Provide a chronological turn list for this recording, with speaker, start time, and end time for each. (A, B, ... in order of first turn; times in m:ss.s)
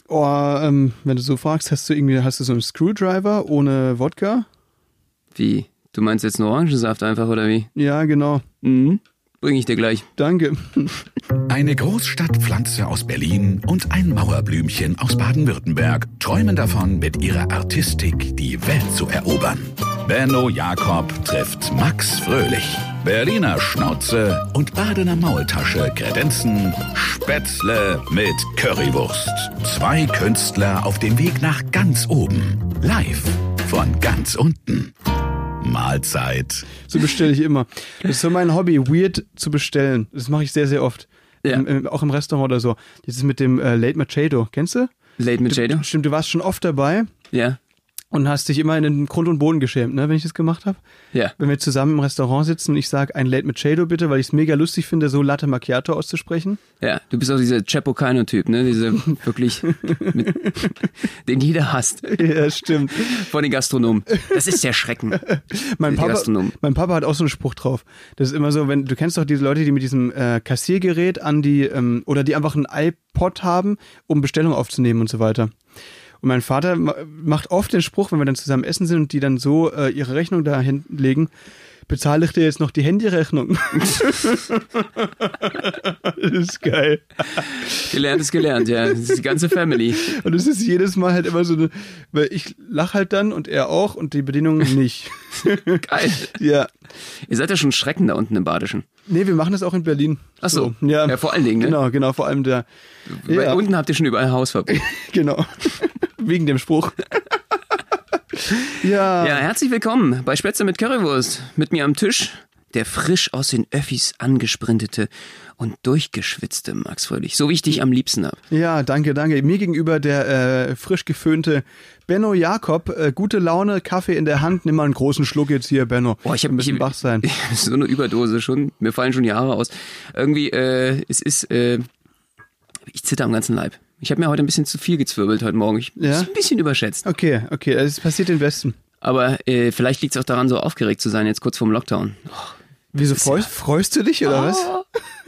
0:00.1-0:04.5 A
0:05.3-0:07.7 B
0:07.8-0:08.4 A
0:08.6-0:10.1 B
0:10.2-0:11.0 A
0:11.5-0:34.9 C
0:35.6-0:36.7 C
0:36.9-0:44.9 A
0:45.2-0:45.8 B
0:45.5-0:47.1 A
0:47.3-0:47.6 B
0:48.1-0:50.8 A
0:51.4-0:56.6 A
0:56.8-1:02.2 B
0:59.8-1:00.7 A
1:02.1-1:03.3 A
1:02.9-1:05.3 B
1:04.2-1:04.5 A
1:05.1-1:15.5 A
1:05.9-1:06.6 B
1:16.2-1:21.3 A
1:21.9-1:36.7 A
1:27.4-1:30.1 B
1:35.8-1:36.4 B
1:37.3-1:38.8 B
1:39.1-1:42.6 A
1:40.4-1:41.8 B
1:43.1-1:44.8 B
1:43.3-1:43.6 A
1:44.7-1:47.0 A
1:48.6-1:58.4 B
1:48.7-1:49.4 A
1:58.5-2:07.3 A
2:06.2-2:11.9 B
2:12.9-2:17.0 B
2:16.0-2:16.3 A
2:17.0-2:18.8 A
2:19.0-2:22.5 B
2:22.9-2:24.7 A
2:23.1-2:23.5 B
2:24.2-2:24.8 B